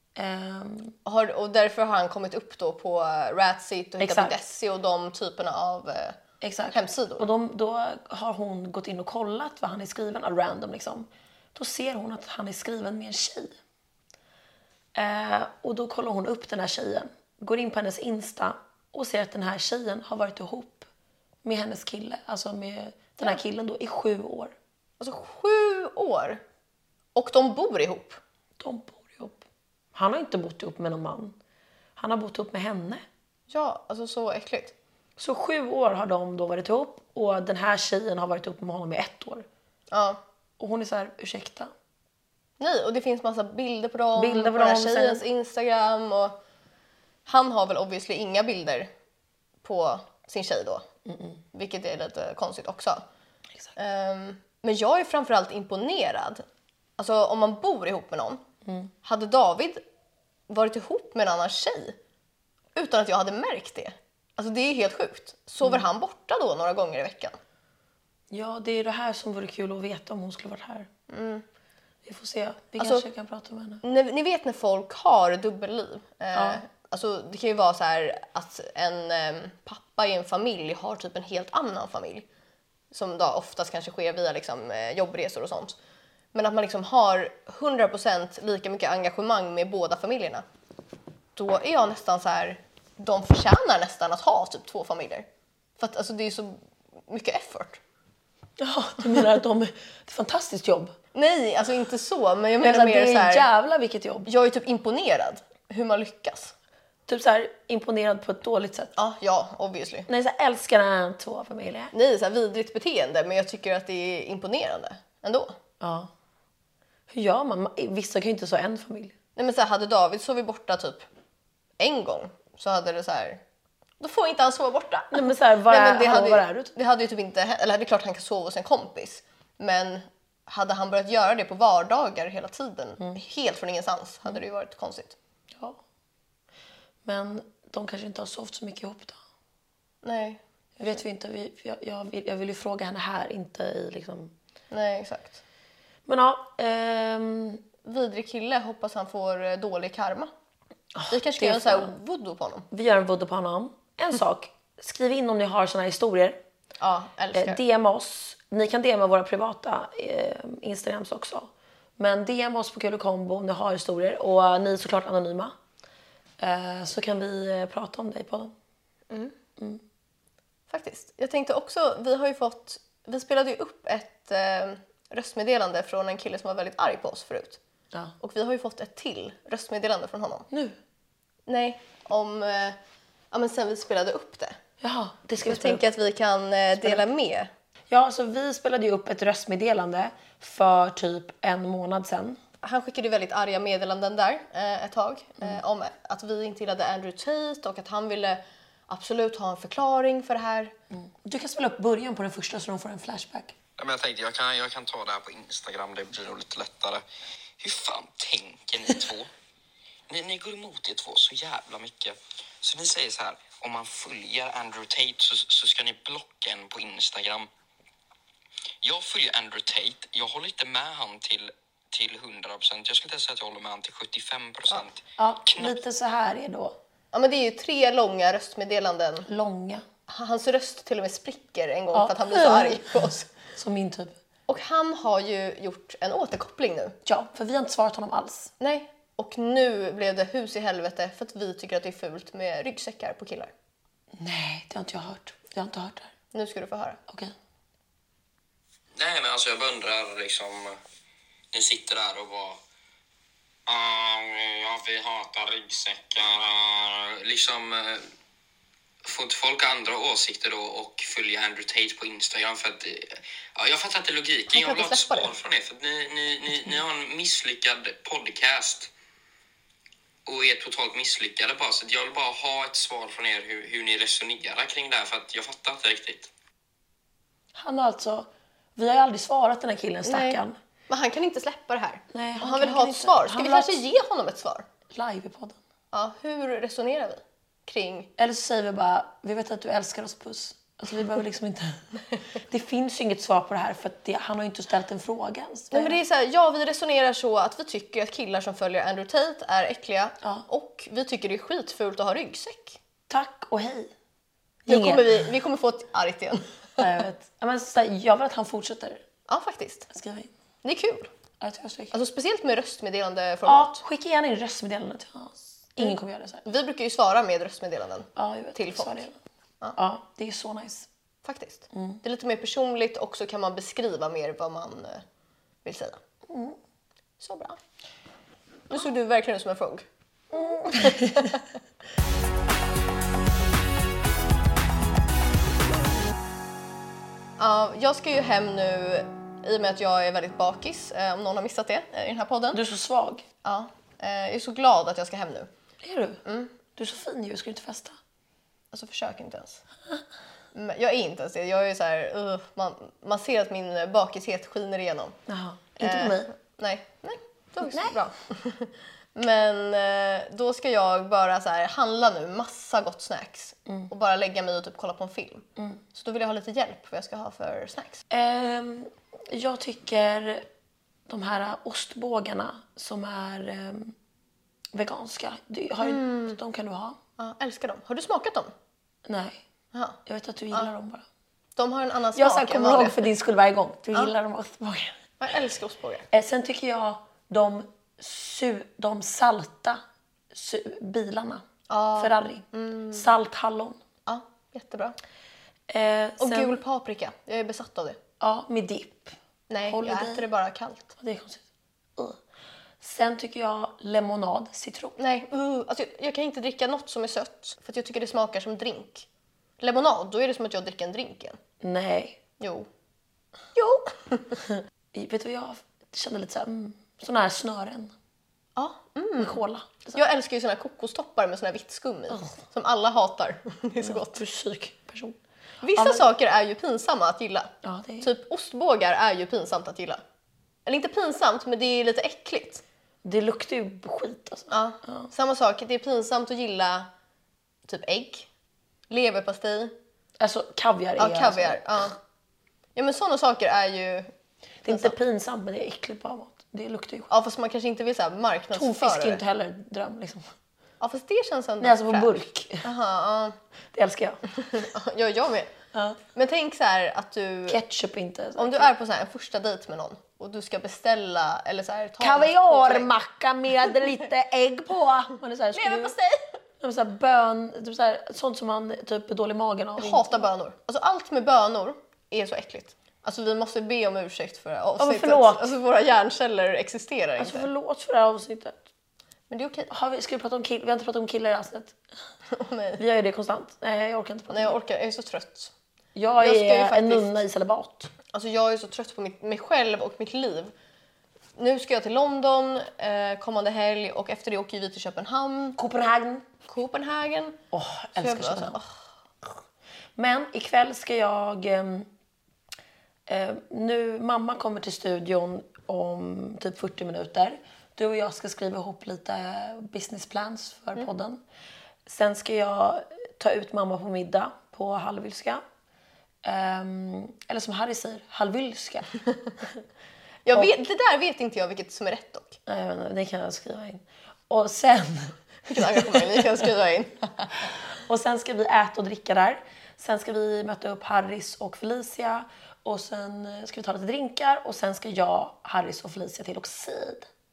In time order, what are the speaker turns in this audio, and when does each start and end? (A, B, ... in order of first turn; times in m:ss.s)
0:00.2-0:01.0 A
0:01.0-0:06.2 B
0:04.0-0:04.4 A
0:06.4-0:13.6 A
0:06.7-0:07.2 B
0:14.9-0:20.9 A
0:21.4-0:24.5 A
0:25.0-0:26.4 B
0:27.1-0:28.2 B
0:28.6-0:29.4 A
0:29.9-0:31.3 A
0:32.0-0:33.0 A
0:33.5-0:34.7 B
0:35.2-0:39.4 A
0:39.9-0:40.2 B
0:40.6-0:41.7 A
0:42.6-0:46.4 B
0:44.2-0:45.2 A
0:47.2-0:48.9 B
0:49.6-0:50.8 B
0:51.0-0:51.4 A
0:51.5-0:53.0 B
0:53.8-0:56.4 B
0:57.0-0:58.4 B
0:58.6-0:58.9 A
0:59.0-0:59.8 B
1:00.5-1:02.0 B
1:02.7-1:07.4 B
1:08.3-1:10.9 A
1:11.1-1:11.4 B
1:12.0-1:13.8 A
1:12.8-1:13.0 B
1:13.8-1:22.2 B
1:16.3-1:16.6 A
1:22.9-1:25.8 B
1:26.3-1:30.4 B
1:31.4-1:35.2 B
1:35.8-1:37.8 B
1:38.6-1:40.9 A
1:41.1-1:43.5 B
1:42.6-1:44.3 A
1:44.2-1:46.5 B
1:47.1-1:48.9 A
1:49.0-1:50.1 B
1:50.1-1:51.9 A
1:51.9-1:55.5 B
1:55.8-1:56.1 A
1:57.1-1:59.1 A
1:59.4-2:01.0 B
2:01.8-2:03.4 B
2:04.0-2:15.2 B
2:05.1-2:06.7 A
2:17.0-2:19.2 A
2:20.0-2:21.0 B
2:20.8-2:24.3 A
2:24.7-2:25.4 B
2:26.0-2:27.6 A
2:27.8-2:30.3 B
2:30.9-2:31.9 A
2:31.1-2:32.7 B
2:32.7-2:36.4 A
2:36.8-2:37.6 B
2:37.3-2:45.5 A
2:46.4-2:48.5 A
2:50.7-2:57.6 B
2:58.2-3:00.5 B
3:00.5-3:00.8 A
3:01.5-3:02.8 B
3:03.3-3:04.6 B
3:04.8-3:05.8 A
3:05.4-3:07.5 B
3:07.9-3:12.4 A
3:12.6-3:20.7 B
3:20.9-3:23.5 A
3:23.8-3:27.0 C
3:27.6-3:29.3 C
3:30.1-3:37.5 C
3:38.8-3:45.8 C
3:45.2-3:46.8 A
3:47.1-3:49.3 B
3:49.3-3:49.8 A
3:50.1-3:53.3 B
3:51.9-3:53.0 A
3:53.5-3:54.2 A
3:54.5-3:56.9 B
3:57.0-3:58.5 A
3:58.6-4:03.5 B
4:04.2-4:06.1 A
4:06.3-4:07.0 B
4:07.1-4:07.3 A
4:09.0-4:10.8 C
4:11.5-4:12.6 C
4:13.7-4:18.0 C
4:19.0-4:28.9 C
4:24.5-4:25.3 B
4:30.2-4:36.3 C
4:37.5-4:40.6 A
4:40.0-4:44.6 B
4:42.1-4:43.8 A
4:44.9-4:45.6 A
4:45.9-4:48.1 B
4:48.2-4:56.0 A
4:55.7-5:02.8 B
5:03.1-5:03.9 A
5:04.6-5:05.1 A
5:04.7-5:06.8 B
5:06.8-5:09.0 A
5:09.3-5:09.9 B
5:09.9-5:10.3 A
5:10.6-5:11.1 B
5:11.4-5:12.0 A
5:11.9-5:13.8 B
5:13.4-5:16.5 A
5:15.8-5:19.0 B
5:18.2-5:19.2 A
5:19.8-5:20.9 A
5:21.2-5:25.0 B
5:21.7-5:22.0 A
5:25.6-5:26.0 B
5:26.3-5:26.6 A
5:27.2-5:27.6 B
5:28.7-5:29.8 B
5:30.3-5:31.4 A
5:30.8-5:31.4 B
5:37.4-5:42.6 B
5:42.5-5:43.2 A
5:43.4-5:45.5 B
5:45.8-5:46.2 A
5:46.2-5:46.5 B
5:46.7-5:48.0 A
5:48.7-5:49.6 B
5:50.5-5:55.2 B
5:55.3-5:56.3 A
5:55.8-6:08.0 B
5:57.7-5:58.0 A
6:05.6-6:05.8 A
6:08.1-6:10.4 A
6:11.1-6:13.9 A
6:14.7-6:17.0 A
6:15.8-6:16.4 B
6:17.2-6:18.5 B
6:19.0-6:19.4 A
6:19.7-6:20.0 B
6:20.0-6:21.0 A
6:21.6-6:23.0 B
6:22.1-6:25.0 A
6:25.2-6:26.1 B
6:26.1-6:29.8 A
6:30.3-6:33.8 A
6:31.7-6:33.1 B
6:34.0-6:35.0 B
6:35.7-6:36.6 A
6:36.2-6:38.0 B
6:38.2-6:39.1 A
6:39.5-6:40.9 B
6:39.6-6:40.2 A
6:40.9-6:41.4 A
6:42.8-6:45.0 A
6:45.0-6:49.1 B
6:49.6-6:51.4 B
6:51.6-6:52.2 A
6:52.4-6:52.7 B
6:53.5-6:54.2 B
6:54.5-6:57.9 A
6:58.6-6:59.4 B
6:59.2-7:00.0 A
6:59.9-7:04.2 B
7:03.8-7:05.2 A
7:05.6-7:10.0 B
7:05.7-7:06.0 A
7:07.6-7:08.1 A
7:10.6-7:12.6 B
7:13.0-7:15.1 A
7:14.5-7:16.9 B
7:17.6-7:18.3 B
7:18.9-7:19.7 B
7:20.2-7:21.6 A
7:21.0-7:22.0 B
7:22.8-7:24.1 B
7:24.6-7:27.1 A
7:24.7-7:24.9 B
7:27.1-7:29.2 B
7:28.5-7:30.3 A
7:30.8-7:33.4 B
7:31.6-7:32.6 A
7:33.7-7:34.2 A
7:34.3-7:35.5 B
7:35.7-7:36.0 A
7:36.1-7:37.6 B
7:37.5-7:38.7 A
7:38.4-7:42.9 B
7:42.0-7:45.9 A
7:45.5-7:46.3 B
7:46.6-7:50.2 A
7:49.8-7:57.5 B
7:54.8-7:55.5 A
7:57.2-7:58.6 A
7:59.3-7:59.7 B
7:59.7-8:01.8 A
8:02.3-8:02.8 B
8:02.8-8:04.6 A
8:04.3-8:05.5 B
8:06.0-8:07.9 A
8:06.2-8:07.2 B
8:08.1-8:10.5 B
8:11.4-8:15.6 B
8:15.6-8:16.3 A
8:16.5-8:17.4 B
8:17.5-8:18.6 A
8:18.0-8:18.7 B
8:20.0-8:21.9 A
8:23.1-8:31.2 A
8:31.8-8:35.4 A
8:36.2-8:38.9 A
8:40.2-8:42.4 B
8:42.4-8:46.0 A
8:45.5-8:47.3 B
8:47.8-8:57.1 A